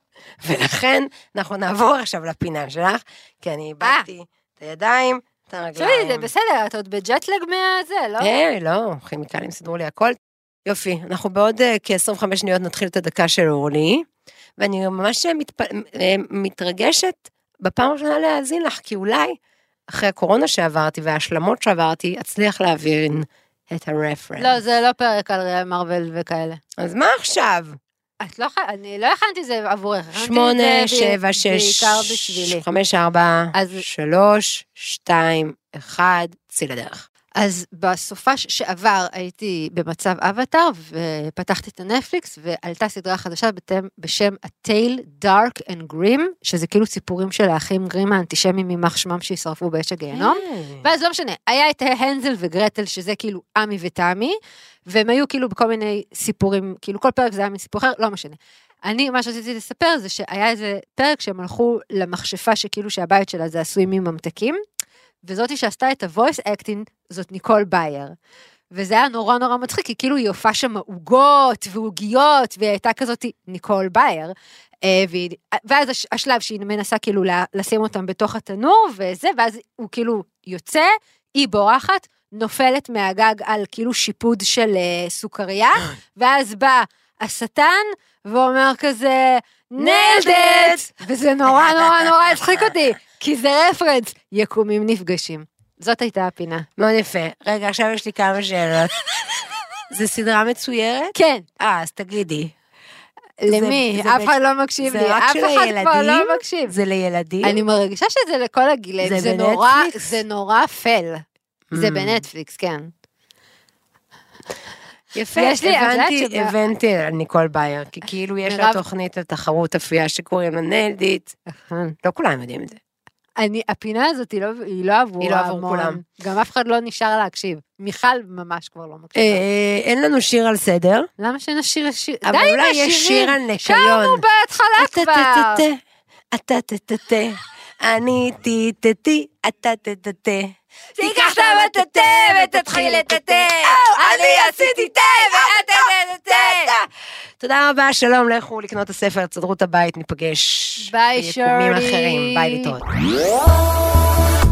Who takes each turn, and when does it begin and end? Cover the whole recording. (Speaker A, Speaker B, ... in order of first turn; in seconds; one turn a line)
Speaker A: 0.4-6.3
Speaker B: 3.8-4.1
Speaker B: 5.8-8.3
Speaker A: 8.2-14.1
Speaker A: 14.6-19.4
Speaker A: 19.9-24.6
Speaker B: 24.4-26.6
Speaker A: 26.8-27.8
Speaker B: 28.2-32.6
Speaker A: 30.1-37.1
Speaker B: 33.5-33.9
Speaker B: 37.4-64.6
Speaker A: 50.1-50.9
Speaker B: 65.2-68.2
Speaker B: 68.7-96.7
Speaker A: 89.8-90.9
Speaker A: 91.5-92.7
Speaker A: 96.8-99.0
Speaker A: 99.9-102.5
Speaker B: 101.2-101.5
Speaker B: 103.4-106.8
Speaker A: 103.5-107.6
Speaker B: 107.4-112.9
Speaker A: 109.0-110.2
Speaker A: 111.7-112.2
Speaker A: 115.1-121.4
Speaker B: 115.3-116.5
Speaker B: 118.4-118.8
Speaker B: 121.5-122.0
Speaker A: 122.0-122.8
Speaker B: 123.4-129.5
Speaker A: 125.2-126.0
Speaker A: 129.2-131.1
Speaker B: 131.2-135.7
Speaker A: 132.2-134.2
Speaker A: 134.8-135.8
Speaker A: 136.3-146.9
Speaker B: 141.0-146.7
Speaker A: 147.4-152.9
Speaker B: 150.8-152.8